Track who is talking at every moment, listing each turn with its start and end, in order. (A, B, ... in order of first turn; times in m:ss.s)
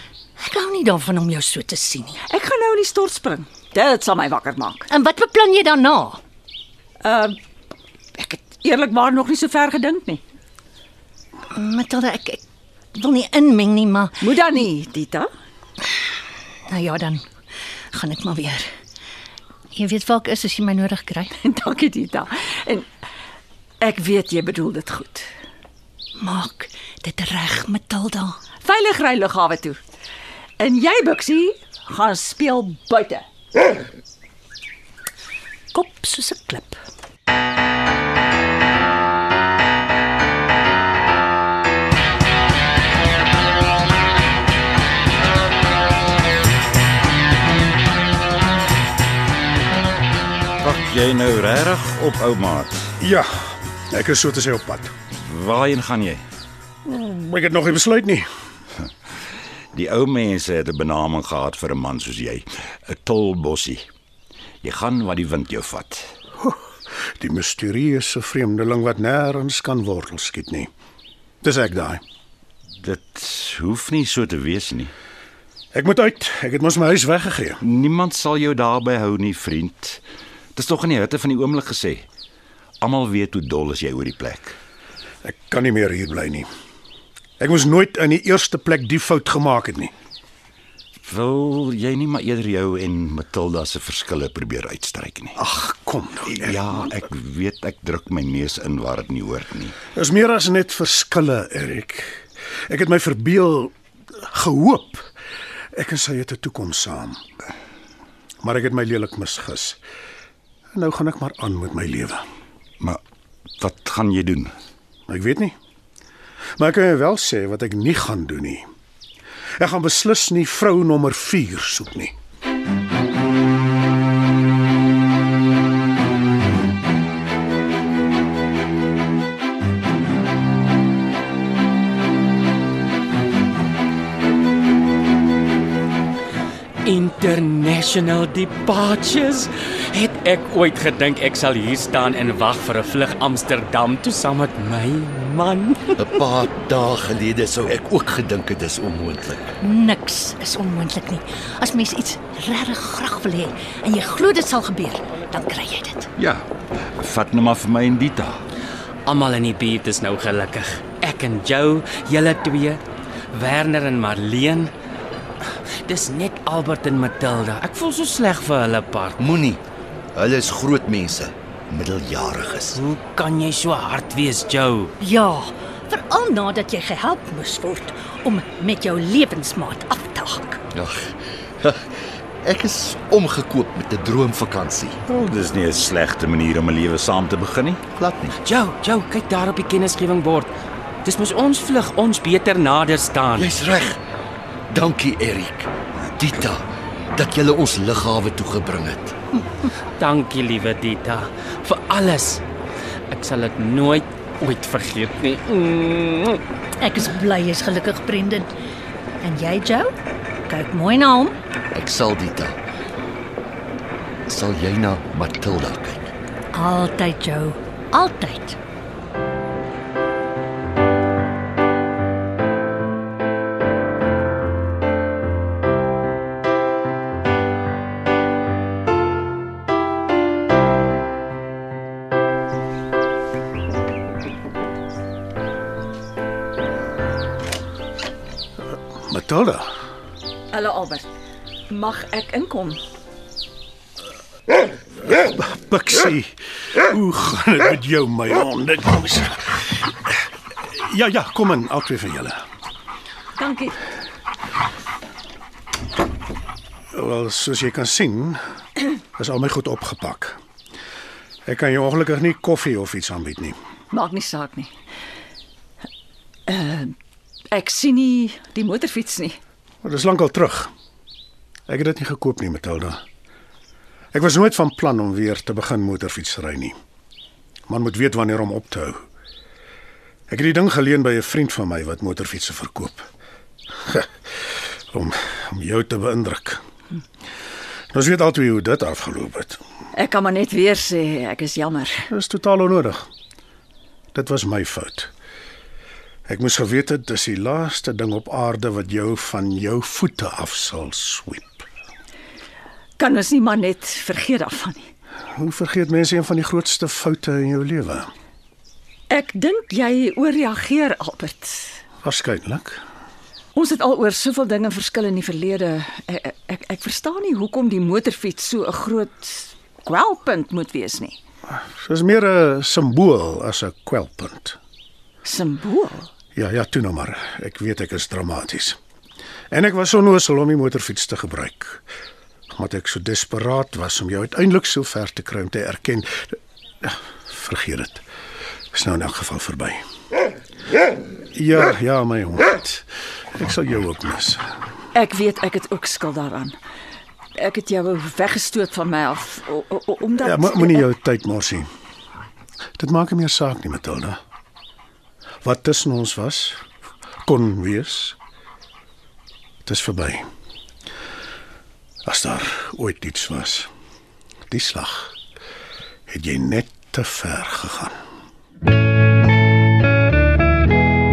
0:00.4-0:02.2 A
0:02.3-0:04.8 B
0:04.9-0:06.2 A
0:07.0-0:07.3 B
0:08.2-0:10.2 B
0:11.5-0:12.4 A
0:12.9-0:14.2 A
0:14.2-0:15.2 B
0:16.7-0:17.2 A
0:17.9-0:18.7 A
0:19.7-0:21.4 A
0:21.6-0:22.8 B
0:23.8-0:25.2 B
0:26.2-0:28.4 A
0:28.6-0:29.8 B
0:30.6-0:33.2 B
0:35.7-0:36.8 A
0:50.6-0:52.9 C
0:53.0-0:54.9 D
0:55.2-0:56.2 C
0:56.8-0:58.3 D
0:59.7-1:03.8 C
1:04.6-1:06.1 C
1:07.2-1:10.7 D
1:11.4-1:12.0 D
1:12.8-1:14.9 C
1:15.7-1:17.6 D
1:17.6-1:20.0 C
1:20.6-1:22.0 C
1:22.8-1:24.6 C
1:25.2-1:26.5 D
1:27.4-1:29.9 D
1:31.1-1:35.3 C
1:35.4-1:36.6 D
1:36.3-1:39.7 C
1:39.9-1:43.7 D
1:44.2-1:45.1 D
1:45.7-1:47.2 D
1:48.4-1:49.8 D
1:50.7-1:52.2 D
1:53.6-1:54.5 C
1:55.1-1:55.5 D
1:56.6-1:58.6 D
1:59.6-2:02.1 D
2:16.8-2:26.1 E
2:26.0-2:29.4 F
2:29.6-2:36.1 A
2:36.2-2:38.4 C
2:39.0-2:42.8 E
2:43.3-2:44.7 E
2:45.8-2:49.2 E
2:49.2-2:49.6 F
2:50.1-2:52.8 F
2:52.7-2:54.9 E
2:55.0-3:00.6 A
3:00.7-3:05.0 F
3:05.0-3:07.8 C
3:07.9-3:08.4 F
3:08.4-3:10.5 E
3:11.0-3:13.5 E
3:13.3-3:14.0 F
3:14.7-3:16.6 F
3:17.1-3:19.1 F
3:20.0-3:22.4 E
3:23.1-3:26.4 E
3:26.8-3:28.5 A
3:29.2-3:29.9 A
3:30.5-3:31.3 A
3:31.7-3:32.6 F
3:34.3-3:36.1 F
3:36.5-3:38.6 A
3:59.1-3:59.7 D
4:00.5-4:01.0 B
4:01.7-4:02.8 B
4:05.1-4:12.4 D
4:13.4-4:13.7 B
4:16.9-4:18.4 D
4:19.2-4:20.4 D
4:21.5-4:23.6 D
4:23.9-4:24.7 B
4:26.5-4:26.9 B
4:27.5-4:29.3 B
4:29.8-4:30.7 D
4:31.7-4:33.0 D
4:34.1-4:36.7 D
4:37.7-4:39.0 D
4:40.3-4:43.1 D
4:44.9-4:46.6 D
4:47.9-4:49.6 D
4:50.0-4:52.0 B
4:52.1-4:53.0 D
4:54.1-4:55.1 D
4:56.3-5:01.6 D
5:03.0-5:04.8 B
5:05.4-5:08.1 D
5:09.1-5:11.6 B
5:12.0-5:12.8 D
5:13.6-5:21.2 B
5:21.8-5:24.6 D
5:25.2-5:26.1 B
5:26.3-5:28.8 D
5:29.5-5:31.8 D
5:32.5-5:38.0 D
5:38.7-5:39.8 D
5:41.3-5:44.4 D
5:44.9-5:46.5 B
5:47.4-5:50.8 B
5:50.2-5:51.7 D
5:52.8-5:54.2 D
5:55.4-5:56.6 D
5:57.2-5:58.2 D
5:59.6-6:00.2 D
6:02.0-6:03.7 D
6:04.5-6:05.1 D
6:06.1-6:08.0 D